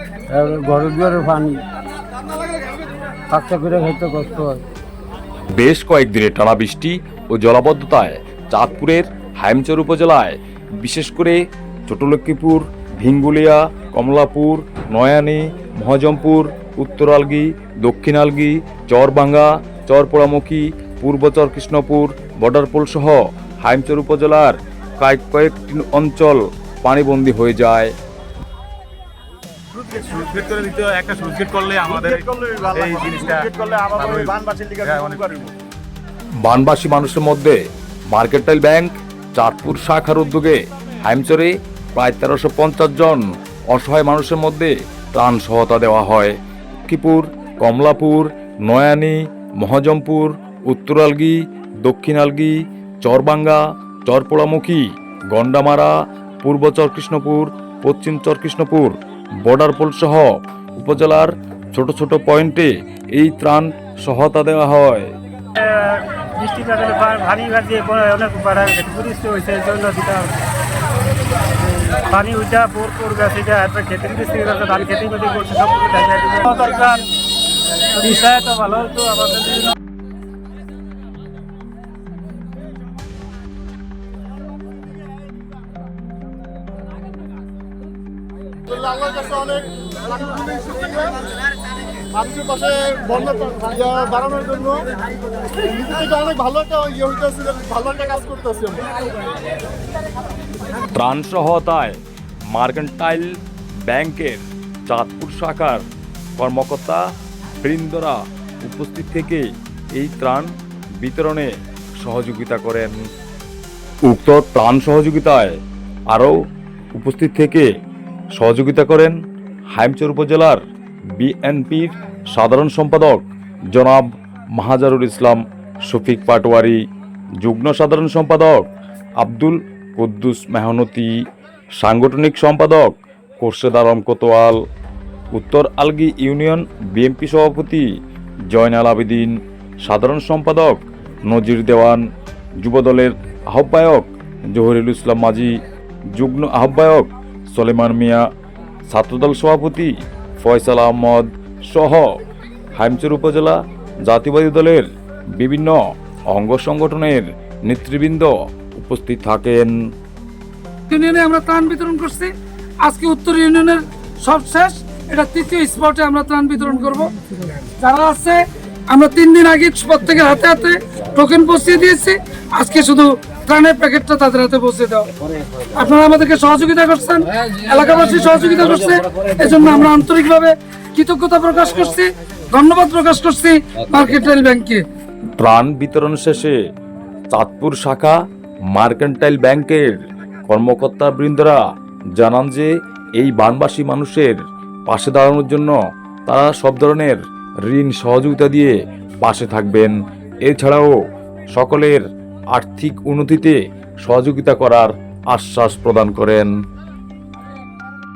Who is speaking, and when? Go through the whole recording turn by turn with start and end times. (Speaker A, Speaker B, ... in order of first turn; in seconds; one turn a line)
Speaker A: 0.3-1.6
Speaker A: 3.3-4.6
Speaker B: 5.5-27.9
Speaker C: 29.7-35.5
Speaker D: 31.9-34.4
Speaker D: 34.9-35.2
Speaker B: 36.4-37.6
Speaker B: 38.1-46.3
Speaker B: 46.9-65.1
Speaker E: 65.5-70.3
Speaker E: 71.5-77.1
Speaker E: 77.9-79.8
Speaker D: 88.7-91.2
Speaker D: 92.1-94.9
Speaker D: 95.6-98.8
Speaker B: 100.9-102.0
Speaker B: 102.5-103.3
Speaker B: 103.9-105.8
Speaker B: 106.4-107.0
Speaker B: 107.6-113.0
Speaker B: 114.0-115.6
Speaker B: 116.9-117.7
Speaker B: 118.3-119.1
Speaker B: 119.7-120.6
Speaker B: 121.2-126.8
Speaker B: 127.4-128.7
Speaker B: 129.2-131.1
Speaker B: 131.8-134.6
Speaker B: 135.3-137.8
Speaker B: 138.5-142.0
Speaker B: 142.6-145.5
Speaker B: 146.1-148.2
Speaker B: 148.9-152.1
Speaker B: 152.7-154.8
Speaker B: 155.3-155.8
Speaker B: 156.3-159.7
Speaker F: 160.9-175.1
Speaker F: 175.7-184.8
Speaker B: 185.4-186.6
Speaker B: 187.3-188.2
Speaker B: 188.7-191.6
Speaker B: 192.2-194.3
Speaker B: 194.9-195.8
Speaker B: 196.3-200.9
Speaker B: 201.5-206.5